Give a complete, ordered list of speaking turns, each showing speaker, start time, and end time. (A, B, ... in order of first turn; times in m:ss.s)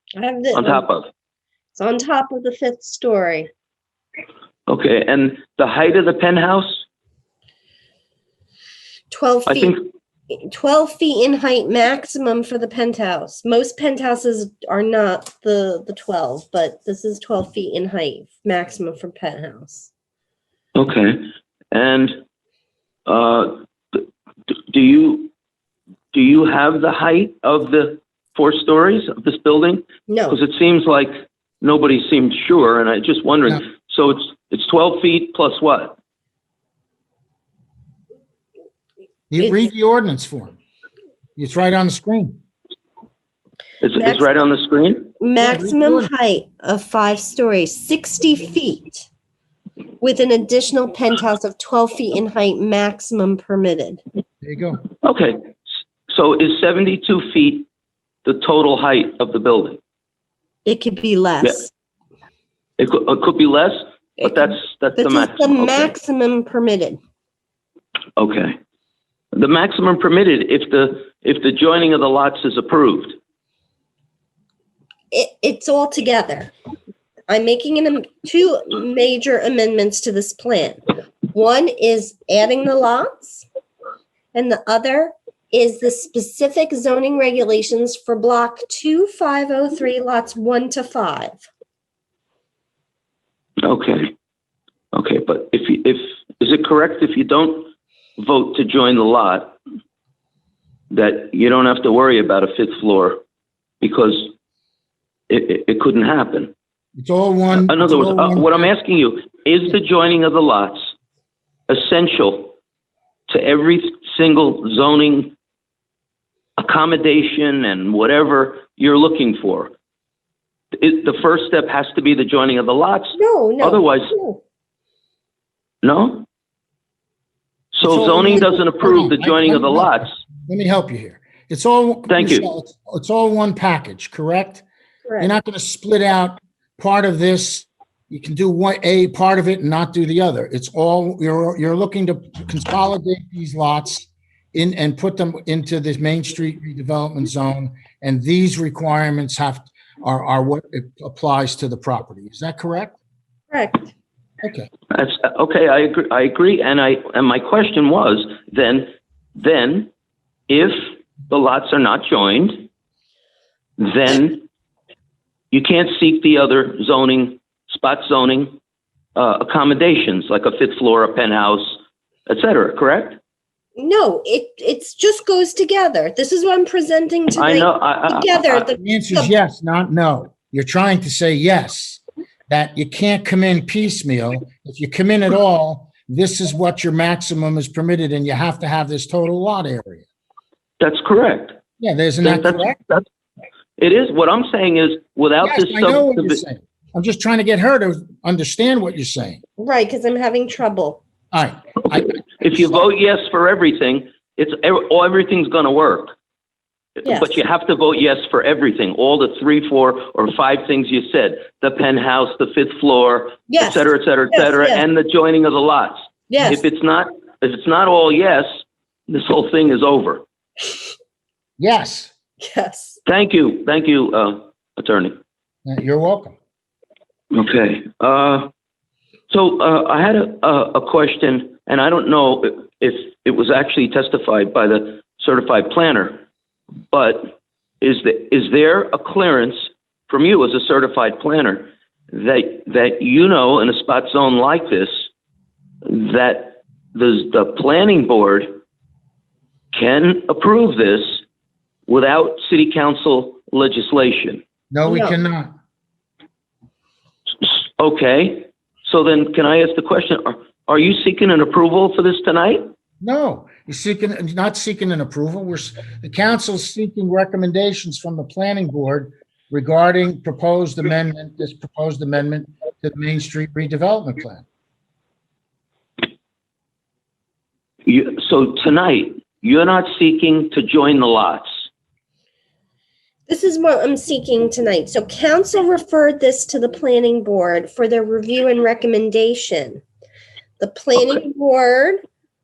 0:00.1-0:00.8 A
0:00.5-0:01.1 B
0:01.7-0:03.5 A
0:04.7-0:06.8 B
0:09.1-0:09.8 A
0:09.5-0:09.8 B
0:10.3-0:19.9 A
0:20.7-0:22.2 B
0:23.1-0:24.0 B
0:24.7-0:25.3 B
0:26.1-0:36.0 B
0:30.1-0:30.4 A
0:39.3-0:40.6 C
0:39.4-0:39.7 A
0:41.4-0:42.4 C
0:43.8-0:45.1 B
0:45.2-0:49.1 A
0:45.4-0:46.1 C
0:50.0-0:54.0 A
0:54.4-0:54.8 C
0:55.0-0:55.5 B
0:56.1-0:57.7 B
0:58.2-0:59.8 B
1:00.6-1:01.7 A
1:02.8-1:05.9 B
1:04.2-1:07.0 A
1:08.2-1:08.6 B
1:09.3-1:13.2 B
1:15.1-1:16.5 A
1:17.3-1:23.4 A
1:24.3-1:31.4 A
1:33.6-1:34.1 B
1:34.9-1:39.6 B
1:40.9-1:43.2 B
1:43.8-1:44.3 B
1:45.3-1:46.5 B
1:47.0-1:48.7 C
1:47.6-1:50.9 B
1:51.7-1:52.6 B
1:53.3-1:55.3 B
1:56.6-1:59.7 B
2:00.8-2:04.1 B
2:03.2-2:04.4 A
2:05.8-2:06.2 B
2:07.7-2:10.1 B
2:07.8-2:14.6 C
2:12.1-2:12.5 B
2:15.0-2:15.3 A
2:15.2-2:33.0 C
2:33.5-2:33.9 A
2:34.4-2:34.7 C
2:34.9-2:39.9 B
2:40.5-2:42.7 B
2:43.8-2:44.4 B
2:45.5-2:48.6 B
2:49.2-2:53.2 B
2:53.8-2:59.3 A
2:57.3-2:58.7 B
2:58.7-3:10.0 C
3:10.8-3:11.6 B
3:11.8-3:12.8 C
3:12.2-3:13.0 B
3:13.8-3:16.4 B
3:15.4-3:19.4 C
3:19.6-3:21.0 A
3:21.3-3:22.7 C
3:22.1-3:26.1 B
3:27.0-3:38.5 B
3:27.0-3:27.4 A
3:33.5-3:34.8 A
3:36.3-3:36.6 A
3:39.1-3:40.2 B
3:41.6-3:42.1 C
3:42.4-3:43.0 A
3:43.0-3:45.1 B
3:45.6-3:46.4 C
3:47.3-3:48.5 B
3:49.3-3:56.2 B
3:56.9-4:05.1 B
4:05.8-4:08.5 B
4:09.7-4:11.2 B
4:11.9-4:14.4 B
4:14.7-4:15.5 C
4:14.8-4:15.2 A
4:17.8-4:22.7 B
4:23.0-4:34.4 C
4:37.8-4:41.5 B
4:43.3-4:49.8 A
4:50.6-4:52.0 A